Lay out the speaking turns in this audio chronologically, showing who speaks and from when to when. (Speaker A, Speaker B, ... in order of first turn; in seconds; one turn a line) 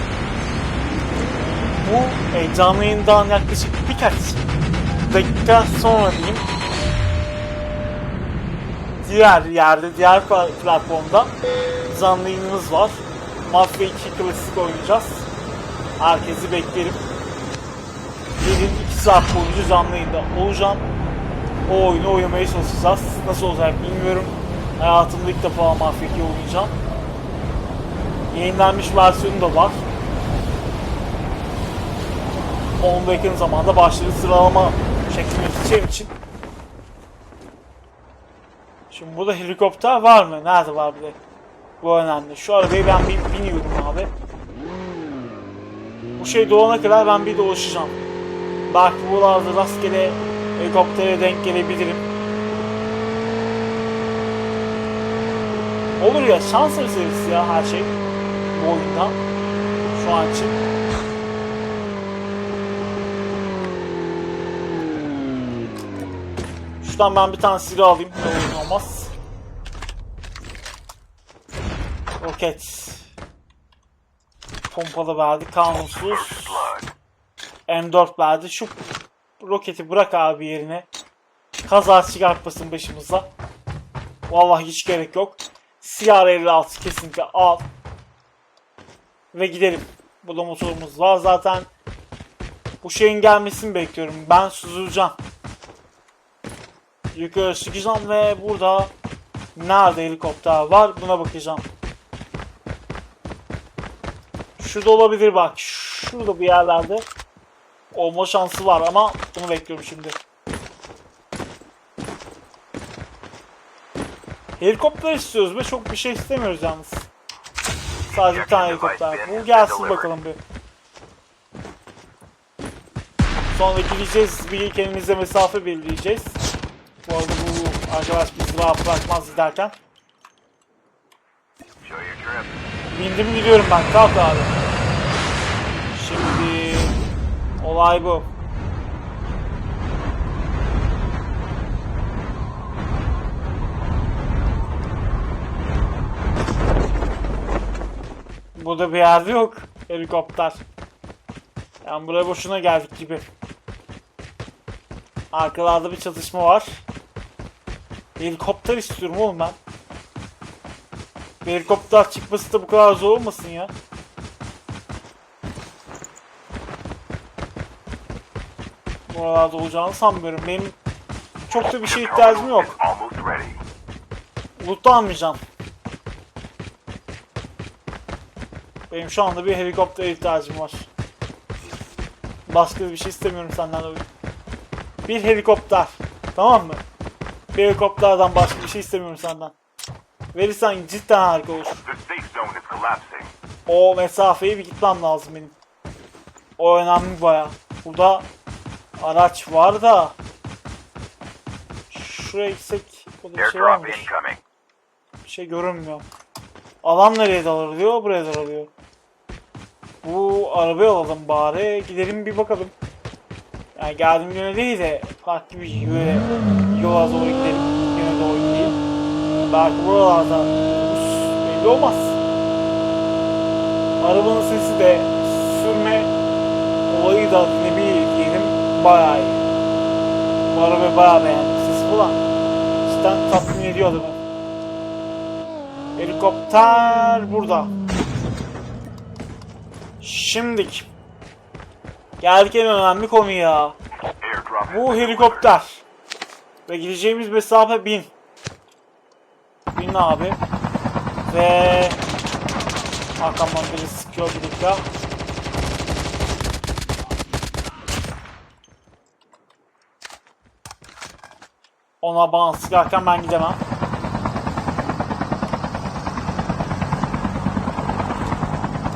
Speaker A: 1.8-4.4
Speaker A: 5.0-6.4
Speaker A: 9.0-11.3
Speaker A: 11.9-15.3
Speaker A: 16.0-17.0
Speaker A: 18.4-20.9
Speaker A: 21.6-26.7
Speaker A: 28.3-29.8
Speaker A: 32.8-36.1
Speaker A: 38.9-41.2
Speaker A: 41.8-44.1
Speaker A: 46.2-48.0
Speaker A: 48.7-52.1
Speaker A: 56.0-57.9
Speaker A: 58.5-59.2
Speaker A: 59.9-60.6
Speaker A: 66.8-69.1
Speaker A: 72.2-73.1
Speaker A: 74.7-76.7
Speaker B: 75.9-76.9
Speaker A: 77.7-78.8
Speaker A: 79.4-80.9
Speaker A: 81.7-83.3
Speaker A: 84.3-87.7
Speaker A: 89.3-91.7
Speaker A: 92.8-95.2
Speaker A: 97.1-98.9
Speaker A: 99.5-101.7
Speaker A: 104.6-107.1
Speaker A: 107.9-110.2
Speaker A: 114.6-117.1
Speaker B: 118.0-120.1
Speaker A: 118.1-120.4
Speaker A: 123.5-126.4
Speaker A: 127.0-129.7
Speaker B: 131.8-132.6
Speaker A: 132.9-134.5
Speaker A: 135.9-136.9
Speaker A: 137.6-138.3
Speaker A: 148.5-150.6
Speaker A: 151.8-153.3
Speaker A: 155.3-156.8
Speaker A: 158.2-159.6
Speaker A: 161.4-163.7
Speaker A: 169.1-170.8
Speaker A: 171.5-172.7
Speaker B: 171.5-173.6
Speaker A: 174.6-175.4
Speaker A: 178.9-180.9
Speaker A: 182.5-184.1
Speaker A: 185.0-186.8
Speaker A: 187.5-189.5
Speaker A: 190.3-191.8
Speaker B: 191.8-193.3
Speaker A: 193.7-195.6
Speaker A: 196.6-198.3
Speaker A: 199.0-200.2
Speaker A: 201.9-204.1
Speaker B: 203.3-204.4
Speaker A: 205.2-206.1
Speaker A: 206.8-208.7
Speaker A: 210.0-212.7
Speaker A: 213.8-218.8
Speaker A: 219.4-222.2
Speaker A: 224.0-226.1
Speaker A: 226.9-229.4
Speaker A: 230.5-232.2
Speaker A: 232.8-234.2
Speaker A: 235.9-237.7
Speaker A: 240.0-240.9
Speaker A: 242.2-243.8
Speaker B: 244.2-245.5
Speaker A: 244.7-245.8
Speaker A: 246.7-248.1
Speaker A: 249.7-250.4
Speaker A: 251.3-252.0
Speaker A: 253.2-254.8
Speaker A: 262.0-263.6